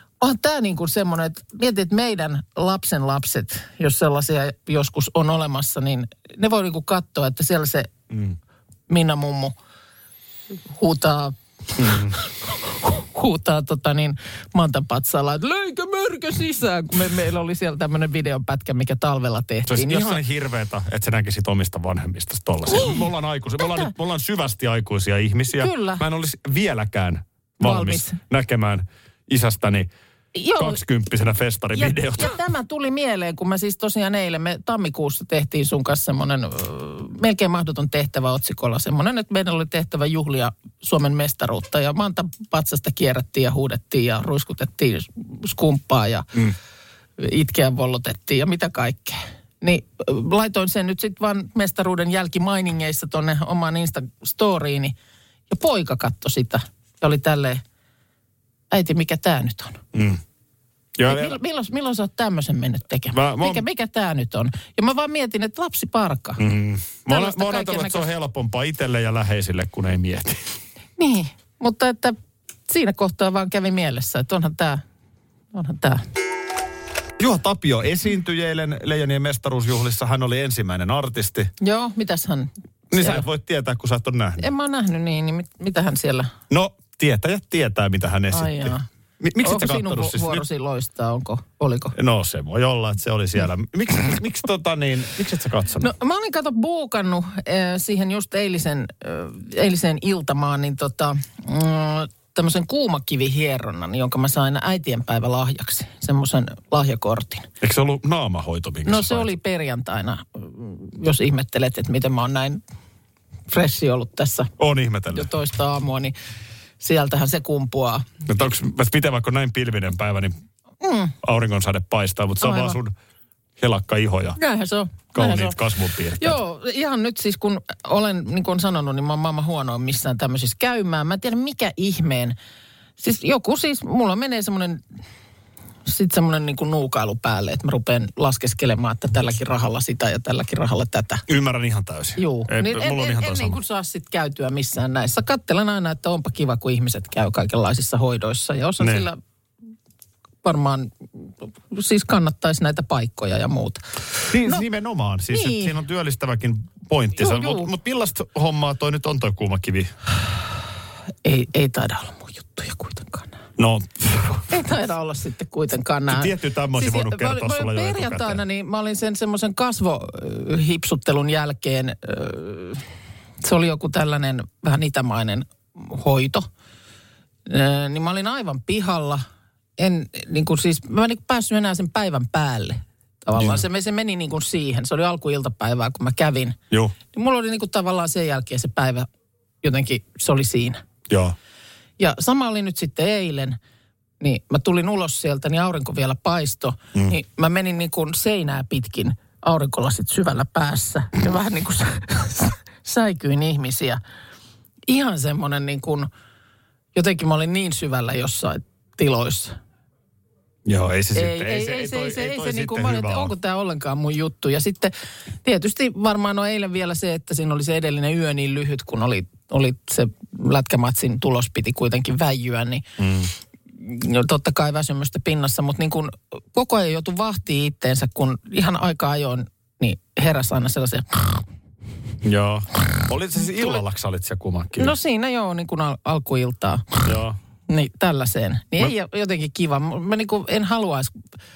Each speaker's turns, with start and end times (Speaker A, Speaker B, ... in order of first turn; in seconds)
Speaker A: 0.2-7.9, 8.9-9.5, 10.7-20.2, 22.7-23.0, 25.6-26.0, 27.6-28.1, 30.3-30.8, 31.7-46.4, 47.2-54.9, 55.5-57.6, 58.7-59.8, 61.1-66.4, 67.1-68.1, 71.0-72.2, 72.7-74.8, 75.5-76.0, 81.6-83.2, 84.4-86.3, 88.3-88.8, 89.4-91.9, 95.8-107.5, 108.8-112.6, 113.5-114.5, 115.1-116.1, 116.8-118.1, 120.8-121.2, 122.4-122.8, 124.4-125.6, 126.2-132.3, 133.0-134.8, 135.8-141.2, 142.2-149.2, 150.4-153.8, 155.3-155.8, 157.2-157.7, 161.2-163.4, 164.5-172.8, 173.4-176.5, 177.4-179.2, 179.8-186.6, 187.1-189.1, 189.6-190.8, 192.0-193.6, 194.2-204.0, 204.9-206.1, 206.9-209.6, 211.1-214.9, 215.4-222.8, 223.8-231.4, 234.8-237.1, 237.7-241.1
Speaker B: 11.8-12.1, 19.7-29.9, 30.6-32.4, 59.9-60.2, 61.0-61.4, 63.1-63.6, 66.4-70.5, 77.2-81.5, 82.9-84.5, 86.5-90.4, 91.9-95.9, 107.6-109.3, 114.6-115.3, 118.2-120.3, 121.2-122.9, 123.6-124.4, 125.1-126.4, 141.3-143.6, 148.8-149.1, 154.3-159.9, 163.6-164.5, 166.1-168.4, 183.3-183.6, 191.1-191.3, 210.7-213.3, 223.0-223.3, 232.2-234.9, 237.0-237.4